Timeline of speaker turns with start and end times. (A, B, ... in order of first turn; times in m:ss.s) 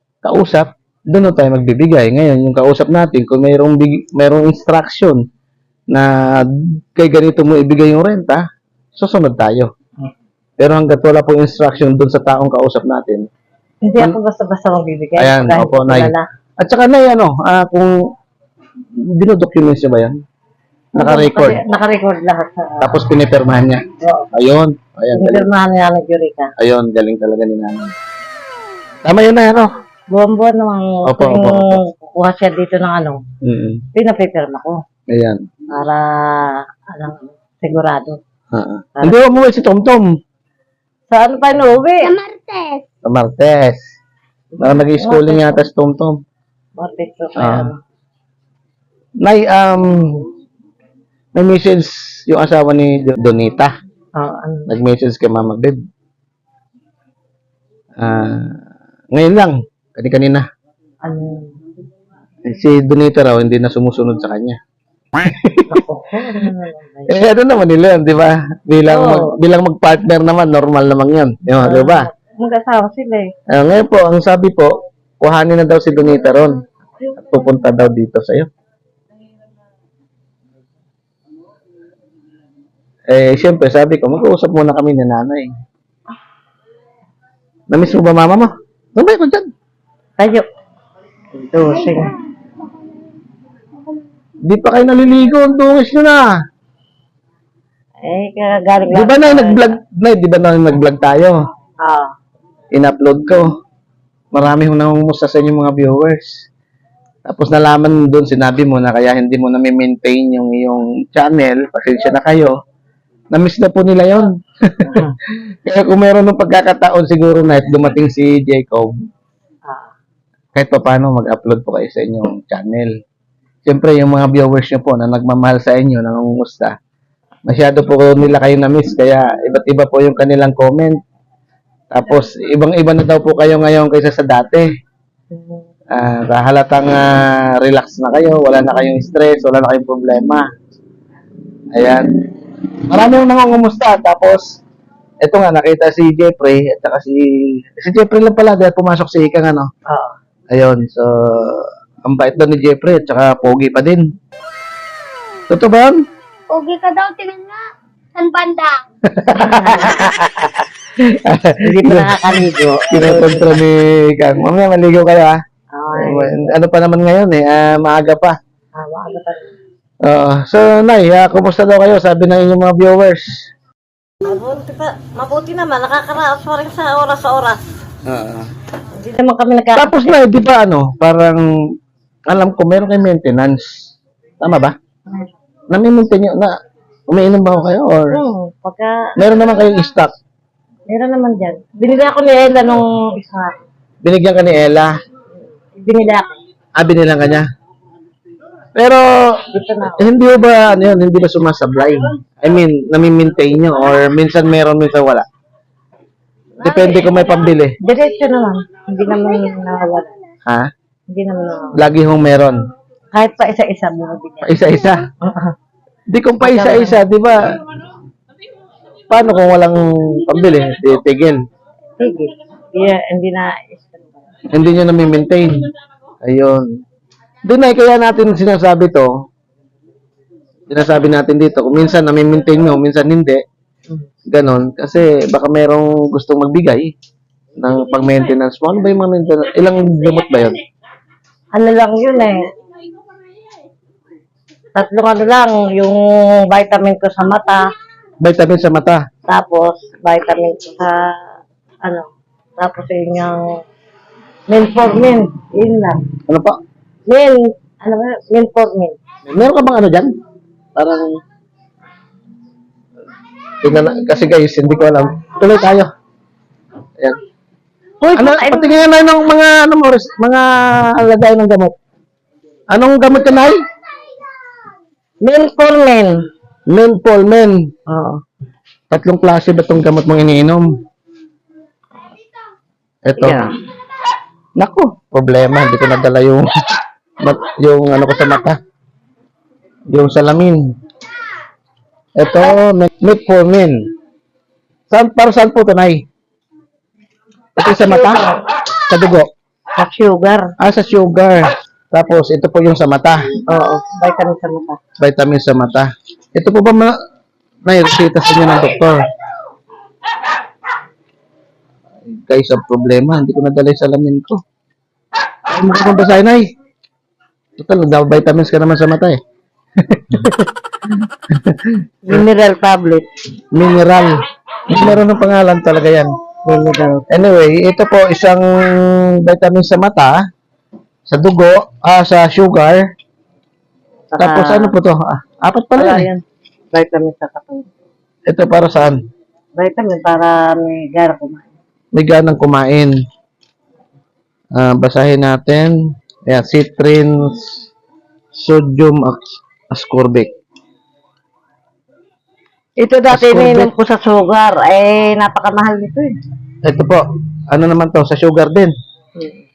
0:00.2-0:05.2 A
0:05.9-0:08.4 A
0:09.0-0:09.7 A
0:10.6-0:13.2 A
0:13.8-0:16.2 B
0:15.2-0:18.1 A
0:19.1-0:20.2 A
0:21.0-0:21.6 A
0:21.0-0:23.0 B
0:22.8-0:25.5 A
0:24.0-0:24.3 B
0:25.2-0:26.5 B
0:26.6-0:27.9 A
0:29.0-0:29.7 A
0:30.1-0:33.2 B
0:31.0-0:31.8 A
0:33.4-0:33.8 A
0:33.9-0:34.8 B
0:35.1-0:35.4 A
0:35.7-0:38.2 B
0:38.5-0:40.1 A
0:41.1-0:42.2 B
0:42.2-0:42.8 C
0:43.0-0:43.8 A
0:44.6-0:45.6 B
0:44.6-0:46.2 A
0:46.8-0:47.8 B
0:47.4-0:47.7 A
0:49.2-0:50.3 A
0:51.3-0:53.7 A
0:54.2-0:54.7 B
0:54.7-0:55.8 A
0:58.0-0:58.6 A
0:59.1-1:00.4 A
1:01.0-1:01.6 B
1:02.4-1:04.6 A
1:05.2-1:05.8 A
1:05.7-1:07.1 B
1:07.1-1:12.1 A
1:08.8-1:09.4 B
1:11.5-1:13.3 B
1:13.5-1:16.6 A
1:17.2-1:18.5 A
1:23.1-1:25.5 A
1:27.7-1:29.5 A
1:30.2-1:30.4 B
1:31.3-1:32.2 B
1:34.5-1:36.3 A
1:38.0-1:39.8 B
1:38.9-1:41.4 A
1:41.8-1:42.1 B
1:42.7-1:43.5 A
1:44.3-1:46.4 A
1:47.3-1:52.6 A
1:53.3-1:58.9 A
2:00.5-2:02.9 A
2:03.6-2:06.8 A
2:07.5-2:11.0 A
2:11.9-2:14.7 A
2:15.3-2:15.7 B
2:15.9-2:20.5 A
2:21.7-2:22.1 A
2:22.8-2:24.6 A
2:25.2-2:29.7 A
2:29.9-2:30.1 B
2:30.5-2:34.0 A
2:35.5-2:36.0 A
2:36.5-2:38.8 C
2:39.0-2:42.1 A
2:39.3-2:40.2 B
2:41.6-2:43.6 B
2:42.9-2:45.4 A
2:45.7-2:46.5 B
2:46.0-2:48.4 A
2:48.7-2:49.5 B
2:50.0-2:53.4 A
2:54.2-2:57.6 B
2:58.0-2:58.5 A
2:59.0-3:00.2 B
2:59.8-3:01.4 A
3:02.3-3:04.7 A
3:05.7-3:06.5 A
3:07.1-3:08.2 A
3:08.1-3:09.4 B
3:09.2-3:10.1 A
3:10.9-3:13.6 B
3:14.0-3:14.9 A
3:15.8-3:16.3 B
3:16.8-3:17.4 A
3:18.7-3:19.4 A
3:19.5-3:20.0 B
3:20.0-3:25.2 A
3:26.6-3:27.8 A
3:26.6-3:27.2 B
3:27.8-3:30.1 B
3:31.1-3:31.8 B
3:31.7-3:32.6 A
3:33.1-3:34.5 B
3:34.4-3:35.0 A
3:35.2-3:35.5 B
3:36.1-3:37.5 A
3:36.4-3:37.0 B
3:39.1-3:41.4 A
3:42.0-3:44.1 B
3:44.5-3:45.6 A
3:46.2-3:46.7 A
3:47.4-3:49.1 A
3:50.7-3:53.4 A
3:54.3-3:56.9 A
3:57.6-4:00.6 A
4:01.5-4:02.5 B
4:04.7-4:07.7 B
4:08.2-4:09.0 A
4:09.3-4:11.2 B
4:12.6-4:13.4 B
4:14.5-4:16.0 B
4:16.3-4:16.6 A
4:17.1-4:19.0 B
4:19.3-4:20.1 A
4:20.8-4:21.1 A
4:23.6-4:25.9 A
4:28.0-4:28.7 B
4:28.1-4:31.7 A
4:32.7-4:33.6 A
4:35.2-4:36.2 B
4:36.7-4:37.7 A
4:37.9-4:38.2 B
4:38.9-4:40.8 A
4:43.0-4:43.5 A
4:43.2-4:43.5 B
4:44.6-4:46.5 A
4:47.2-4:48.6 A
4:49.9-4:50.7 A
4:52.2-4:53.8 A
4:54.9-4:56.0 A
4:57.6-4:58.2 A
4:57.7-4:58.4 B
4:58.8-4:59.3 A
4:59.8-5:00.5 B
5:00.6-5:03.3 A
5:03.5-5:04.8 B
5:05.0-5:07.0 A
5:07.6-5:09.0 A
5:12.1-5:14.4 A
5:15.5-5:16.5 A
5:17.6-5:19.2 A
5:19.8-5:20.4 A
5:21.3-5:22.2 A
5:22.0-5:23.1 B
5:23.5-5:24.1 A
5:24.7-5:26.1 A
5:26.4-5:27.1 B
5:27.1-5:30.2 A
5:31.1-5:32.9 A
5:34.1-5:34.8 B
5:34.2-5:36.1 A
5:35.8-5:37.7 B
5:38.3-5:39.0 A
5:39.6-5:41.5 B
5:41.9-5:42.9 A
5:44.5-5:45.7 A
5:46.3-5:47.6 A
5:48.3-5:50.3 A
5:52.8-5:56.2 B
5:53.1-5:53.7 A
5:56.6-5:58.7 A
5:59.2-5:59.4 B